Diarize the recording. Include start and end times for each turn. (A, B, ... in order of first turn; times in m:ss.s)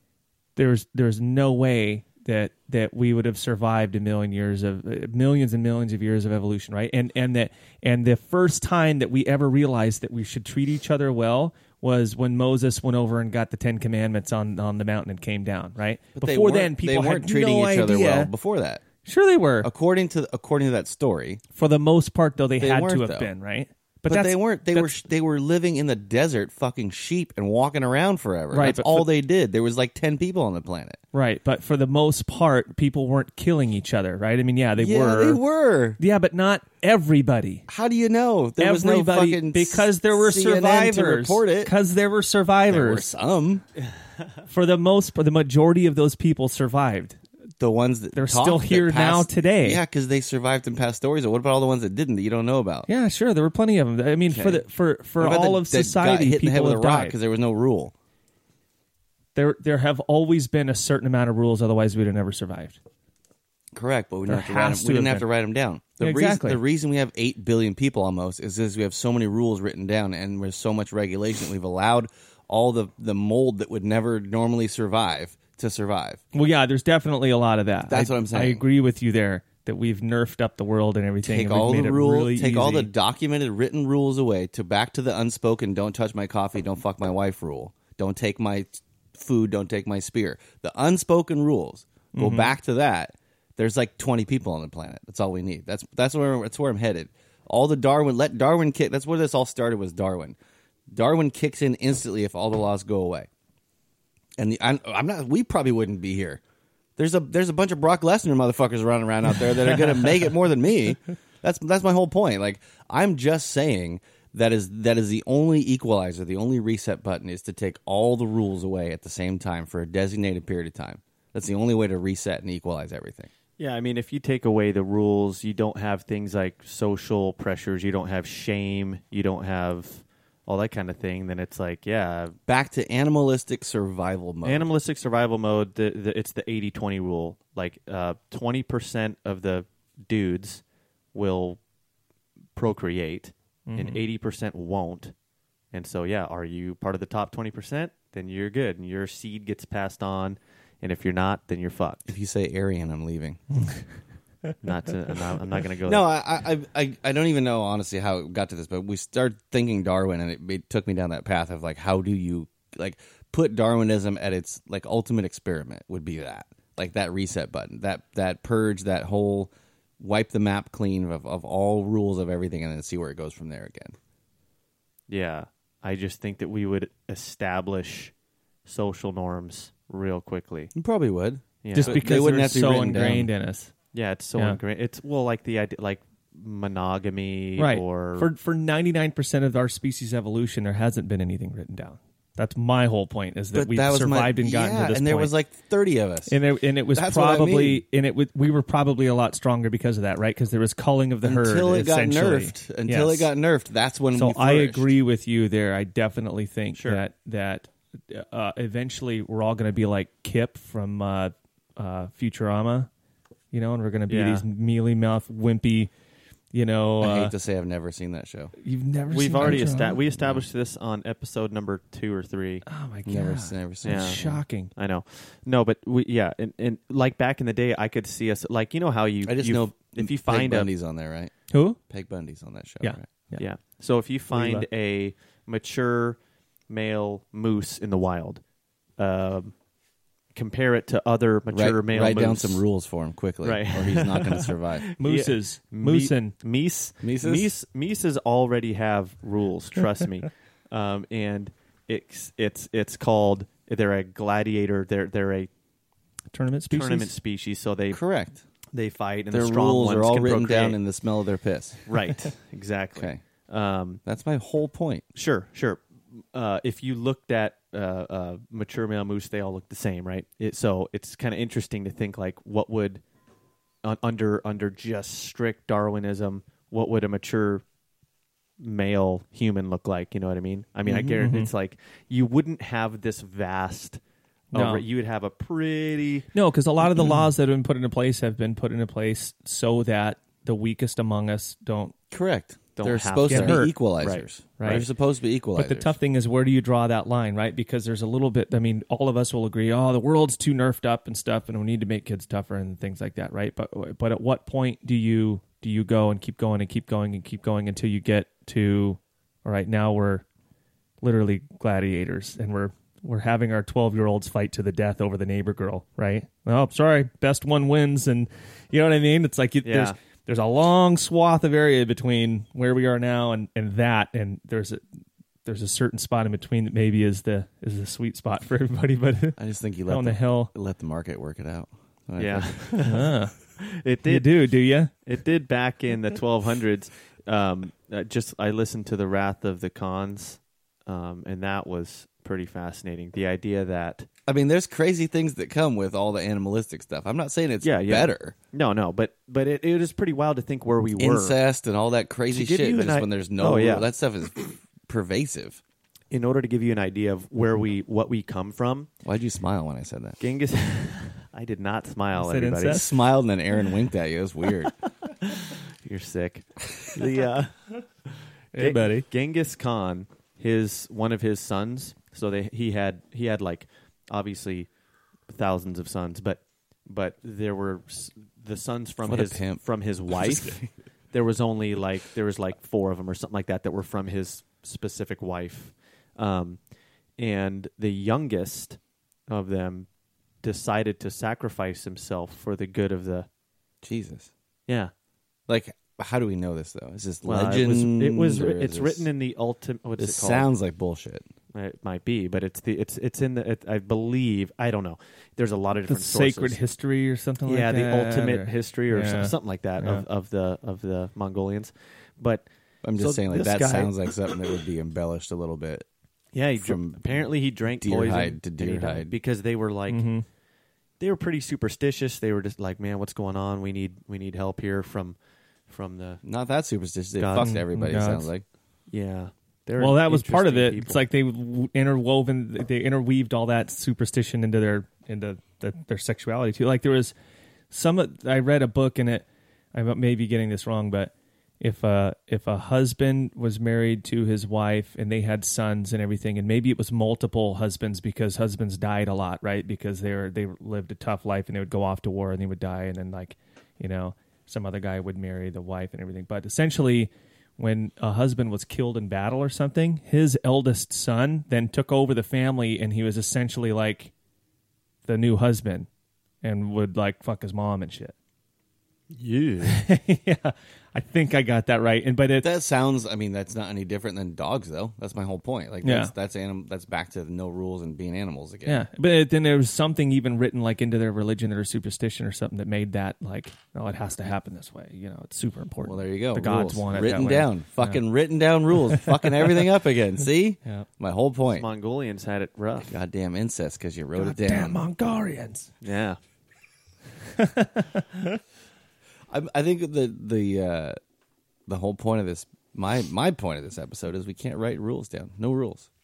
0:00.6-0:18.3 A
0:16.2-0:18.8 B
0:19.0-0:19.7 A
0:19.6-0:21.4 B
0:21.5-0:24.9 A
0:22.6-0:23.3 B
0:24.0-0:31.0 B
0:28.5-0:29.1 A
0:31.1-0:35.4 A
0:34.8-0:36.0 B
0:36.0-0:37.6 A
0:37.7-0:41.7 B
0:38.6-0:43.1 A
0:42.7-0:43.6 B
0:44.5-0:47.2 A
0:47.6-0:52.9 B
0:48.1-0:49.8 A
0:52.9-0:57.2 A
0:54.3-0:54.6 B
0:55.2-0:57.9 B
0:59.3-1:02.8 A
1:03.7-1:16.2 B
1:04.3-1:05.2 A
1:06.0-1:06.6 A
1:16.3-1:22.9 A
1:17.9-1:18.6 B
1:21.2-1:40.4 B
1:32.1-1:32.5 A
1:40.9-1:43.3 B
1:44.4-1:46.4 B
1:47.0-2:03.3 B
2:03.6-2:12.4 C
2:12.5-2:14.7 B
2:14.4-2:20.6 C
2:21.1-2:21.6 C
2:22.5-2:25.1 C
2:23.7-2:24.0 A
2:25.7-2:32.1 C
2:32.1-2:33.4 B
2:34.6-2:36.0 C
2:35.8-2:54.0 B
2:55.1-2:58.1 C
2:58.6-3:00.7 C
3:00.7-3:03.3 B
3:01.6-3:02.0 C
3:01.7-3:03.7 A
3:03.9-3:08.3 C
3:07.6-3:15.3 A
3:13.5-3:16.4 B
3:16.3-3:23.3 A
3:16.9-3:17.8 B
3:21.2-3:24.9 B
3:24.1-3:32.9 A
3:26.8-3:27.0 C
3:33.5-3:35.9 A
3:34.1-3:34.4 C
3:36.5-3:37.3 A
3:37.0-3:38.5 B
3:38.6-3:40.0 A
3:39.1-3:42.6 C
3:39.4-3:40.4 B
3:42.7-3:44.7 A
3:43.0-3:44.4 B
3:43.8-3:44.2 C
3:44.7-3:50.7 C
3:49.2-3:51.3 B
3:51.5-3:51.8 A
3:51.9-3:53.0 B
3:52.8-3:53.4 A
3:53.4-3:56.2 C
3:54.3-3:54.6 A
3:56.7-3:58.4 C
3:59.0-3:59.5 C
4:00.3-4:02.6 C
4:01.5-4:04.9 B
4:03.4-4:15.5 C
4:05.0-4:06.4 A
4:07.0-4:07.5 B
4:16.3-4:17.1 A
4:16.7-4:18.0 C
4:17.9-4:18.4 B
4:18.7-4:20.8 C
4:19.3-4:21.8 B
4:21.9-4:24.0 C
4:23.0-4:23.2 B
4:24.0-4:25.0 B
4:25.1-4:33.0 C
4:33.8-4:37.6 C
4:38.6-4:44.0 C
4:40.9-4:41.1 B
4:40.9-4:41.5 A
4:44.5-4:46.3 C
4:44.5-4:44.8 A
4:46.3-4:51.9 A
4:52.1-4:55.9 B
4:52.8-4:54.8 C
4:53.2-4:53.7 A
4:54.6-4:54.8 A
4:55.5-5:10.2 A
5:11.0-5:24.8 A
5:19.6-5:20.0 C
5:25.4-5:30.5 A
5:29.4-5:32.8 B
5:32.2-5:44.1 C
5:32.8-5:33.4 A
5:34.0-5:34.9 A
5:44.2-5:48.3 B
5:47.6-5:51.4 C
5:51.0-5:55.6 B
5:52.3-5:53.9 C
5:56.1-5:58.9 C
5:59.0-6:00.2 B
6:00.2-6:02.8 C
6:02.1-6:02.9 A
6:02.7-6:04.7 B
6:05.2-6:14.7 C
6:08.5-6:09.0 A
6:15.3-6:20.6 C
6:19.0-6:20.7 B
6:21.1-6:26.6 C
6:27.2-6:29.9 C
6:30.4-6:33.3 C
6:33.8-6:34.3 B
6:34.7-6:34.9 C
6:35.5-6:39.1 B
6:37.2-6:40.5 C
6:40.0-6:41.2 B
6:41.5-6:46.6 C
6:45.8-6:50.0 A
6:47.4-6:53.9 C
6:52.8-6:55.8 B
6:56.3-7:00.1 C
6:56.6-6:59.1 B
6:59.9-7:00.2 A
7:01.0-7:05.2 C
7:05.7-7:06.2 C
7:06.2-7:08.4 B
7:07.2-7:07.6 C
7:07.4-7:08.3 A
7:08.9-7:11.0 C
7:09.8-7:17.1 A
7:17.7-7:44.1 A
7:45.0-7:45.9 A
7:46.4-7:48.1 A
7:49.1-7:49.8 C
7:49.6-7:52.5 A
7:52.4-7:58.8 B
7:55.8-7:56.1 A
7:58.6-8:08.0 A
8:05.8-8:11.7 B
8:08.8-8:09.1 A
8:11.5-8:12.9 C
8:12.9-8:14.8 B
8:14.2-8:15.7 A
8:15.8-8:16.2 C
8:17.4-8:18.0 A
8:19.3-8:21.0 B
8:21.7-8:25.9 B